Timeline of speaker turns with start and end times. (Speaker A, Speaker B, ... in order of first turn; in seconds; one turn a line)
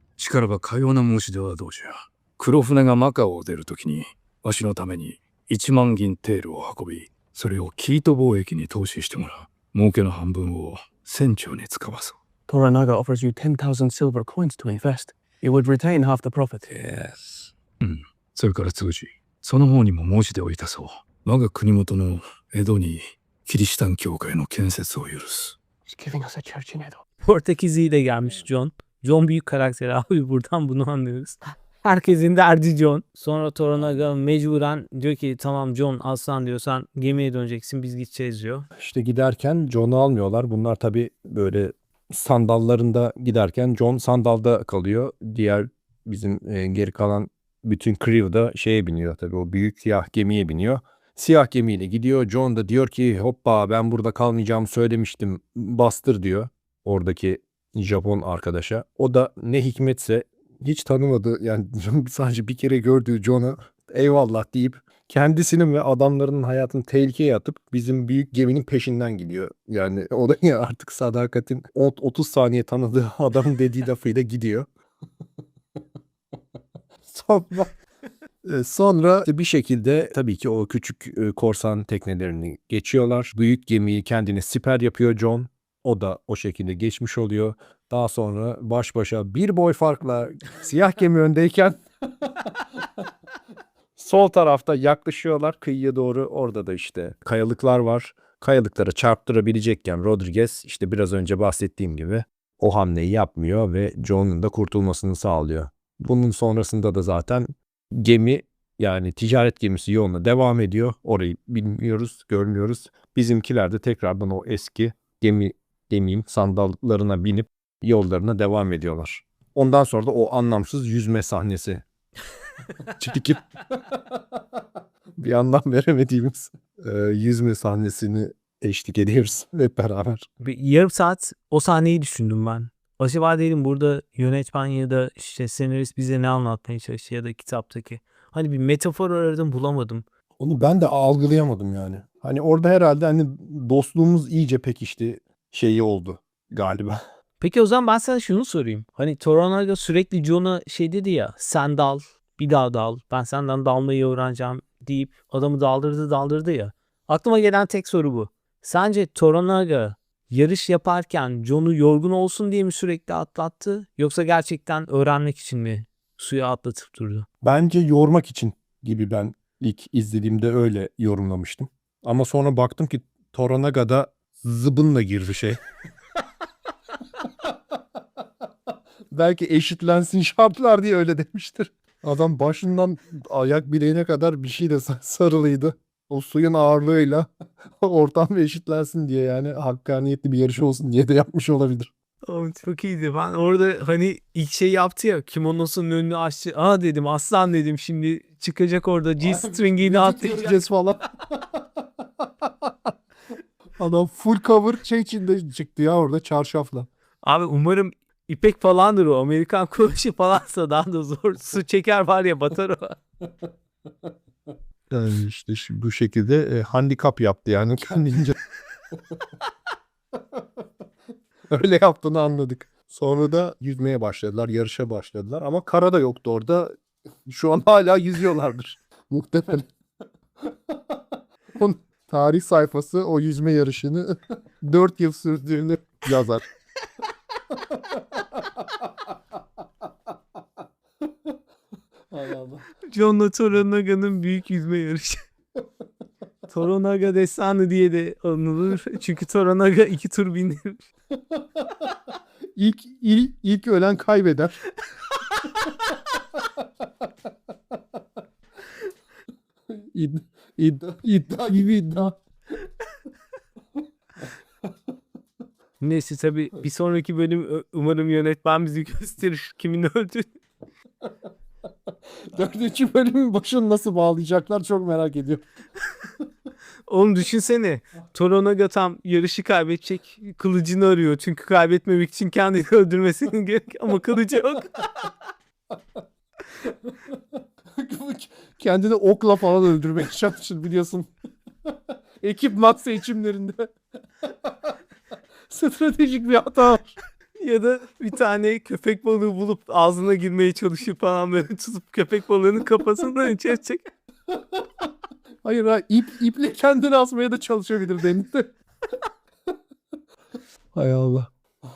Speaker A: 0.2-12.2
Speaker B: 12.5-16.8
Speaker A: 16.7-25.6
Speaker B: 25.9-27.0
Speaker C: 27.2-38.7
Speaker D: 38.8-74.7
Speaker D: 77.1-77.7
Speaker D: 78.4-92.7
Speaker D: 94.0-121.8
Speaker D: 122.9-124.2
Speaker D: 125.2-130.3
Speaker C: 130.4-140.0
Speaker D: 140.4-147.0
Speaker C: 147.4-167.3
Speaker D: 167.4-175.6
Speaker D: 179.1-191.9
Speaker C: 192.2-200.6
Speaker D: 199.2-201.7
Speaker D: 202.2-202.7
Speaker D: 203.8-206.9
Speaker C: 207.2-213.0
Speaker D: 214.9-218.4
Speaker D: 221.5-229.7
Speaker D: 230.4-231.0
Speaker D: 231.5-236.5
Speaker D: 237.5-238.9
Speaker D: 242.1-242.6
Speaker C: 242.9-245.2
Speaker C: 246.5-250.8
Speaker D: 252.6-254.6
Speaker D: 259.7-262.2
Speaker C: 265.8-270.3
Speaker D: 272.3-275.5
Speaker C: 276.9-284.9
Speaker D: 287.8-291.1
Speaker D: 291.7-293.7
Speaker D: 294.2-294.7
Speaker D: 295.5-296.9
Speaker C: 297.4-303.9
Speaker D: 304.4-304.7
Speaker D: 305.4-308.5
Speaker D: 310.7-311.3